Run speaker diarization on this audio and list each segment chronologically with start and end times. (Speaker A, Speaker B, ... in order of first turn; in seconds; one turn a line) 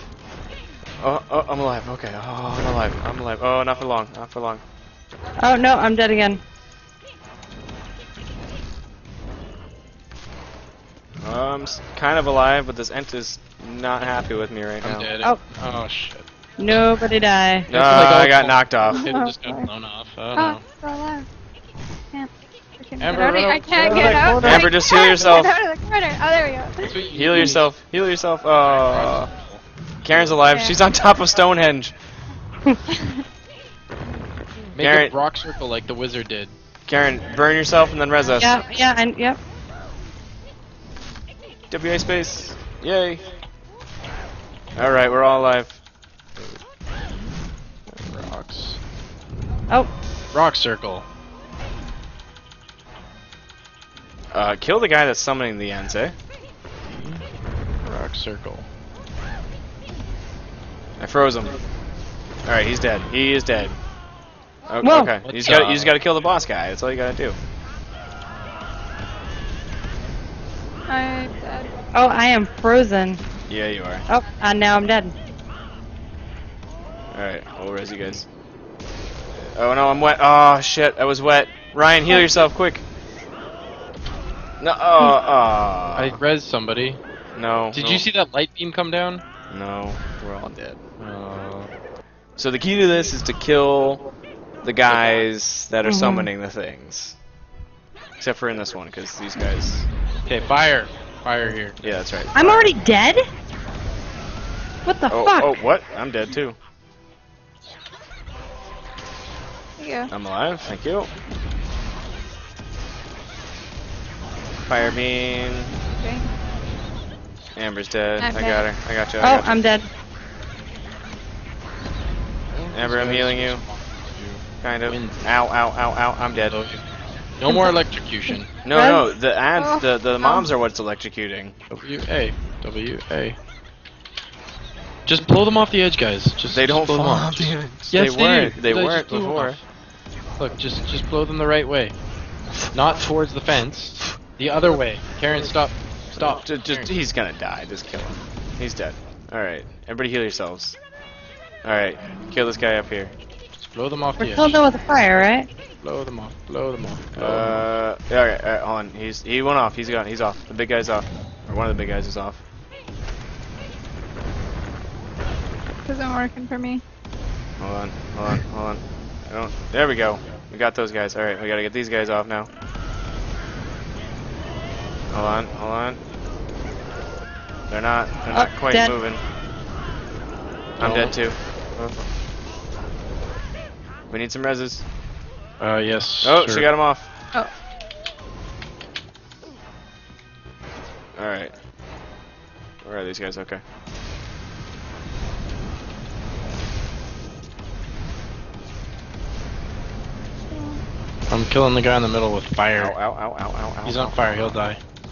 Speaker A: 1.0-4.6
Speaker B: 5.4-6.4
Speaker A: 11.2-15.1
Speaker C: 14.8-16.2
Speaker B: 16.6-17.7
Speaker A: 17.7-19.1
Speaker C: 17.7-20.6
Speaker D: 18.8-19.7
Speaker D: 20.4-21.3
Speaker D: 22.1-27.5
Speaker C: 23.0-25.4
Speaker A: 24.4-25.5
Speaker C: 26.8-27.7
Speaker A: 27.1-29.3
Speaker C: 28.6-30.4
Speaker A: 30.0-31.9
Speaker D: 30.5-30.8
Speaker D: 32.9-33.2
Speaker C: 34.7-36.5
Speaker A: 34.8-35.1
Speaker A: 36.9-38.6
Speaker B: 38.4-39.4
Speaker A: 41.7-43.2
Speaker A: 44.8-45.8
Speaker C: 47.9-48.8
Speaker C: 50.3-51.1
Speaker A: 54.3-56.1
Speaker C: 56.9-57.2
Speaker C: 57.8-58.7
Speaker A: 61.0-61.5
Speaker A: 62.4-63.8
Speaker A: 64.7-67.4
Speaker B: 64.8-65.2
Speaker C: 65.2-65.9
Speaker D: 70.9-71.7
Speaker B: 71.9-73.2
Speaker A: 73.5-74.0
Speaker B: 74.1-75.1
Speaker A: 77.1-78.2
Speaker A: 79.5-82.8
Speaker A: 84.6-86.2
Speaker C: 85.9-87.0
Speaker A: 87.4-88.1
Speaker C: 87.7-89.2
Speaker A: 89.5-90.8
Speaker C: 91.0-91.7
Speaker A: 92.4-94.0
Speaker A: 94.6-97.2
Speaker C: 94.9-95.3
Speaker B: 95.8-96.3
Speaker A: 98.2-99.9
Speaker C: 100.2-101.9
Speaker A: 101.8-102.7
Speaker B: 102.3-103.2
Speaker B: 104.8-105.6
Speaker A: 105.1-106.6
Speaker D: 109.8-110.1
Speaker A: 110.1-111.1
Speaker A: 114.7-115.7
Speaker D: 116.0-116.3
Speaker A: 117.5-119.5
Speaker D: 118.2-118.7
Speaker B: 119.2-119.9
Speaker C: 122.5-125.2
Speaker A: 122.7-123.6
Speaker A: 124.6-126.6
Speaker C: 126.3-126.8
Speaker C: 127.4-128.5
Speaker A: 128.6-131.6
Speaker B: 128.7-129.1
Speaker D: 129.6-130.5
Speaker C: 131.7-133.4
Speaker C: 135.1-139.6
Speaker A: 136.5-139.6
Speaker C: 140.4-141.9
Speaker C: 142.7-146.9
Speaker A: 146.1-150.8
Speaker A: 151.6-153.1
Speaker C: 153.6-154.6
Speaker B: 154.2-155.5
Speaker C: 155.8-157.7
Speaker A: 157.1-162.4
Speaker D: 165.9-166.8
Speaker A: 167.6-172.5
Speaker A: 175.1-176.0
Speaker A: 177.7-179.2
Speaker B: 178.3-178.9
Speaker A: 180.8-181.4
Speaker C: 180.8-181.1
Speaker A: 184.1-184.8
Speaker C: 185.6-186.7
Speaker A: 186.2-187.1
Speaker A: 191.2-191.5
Speaker A: 192.8-193.6
Speaker D: 200.5-200.8
Speaker C: 201.3-202.9
Speaker A: 202.8-204.2
Speaker C: 203.8-204.8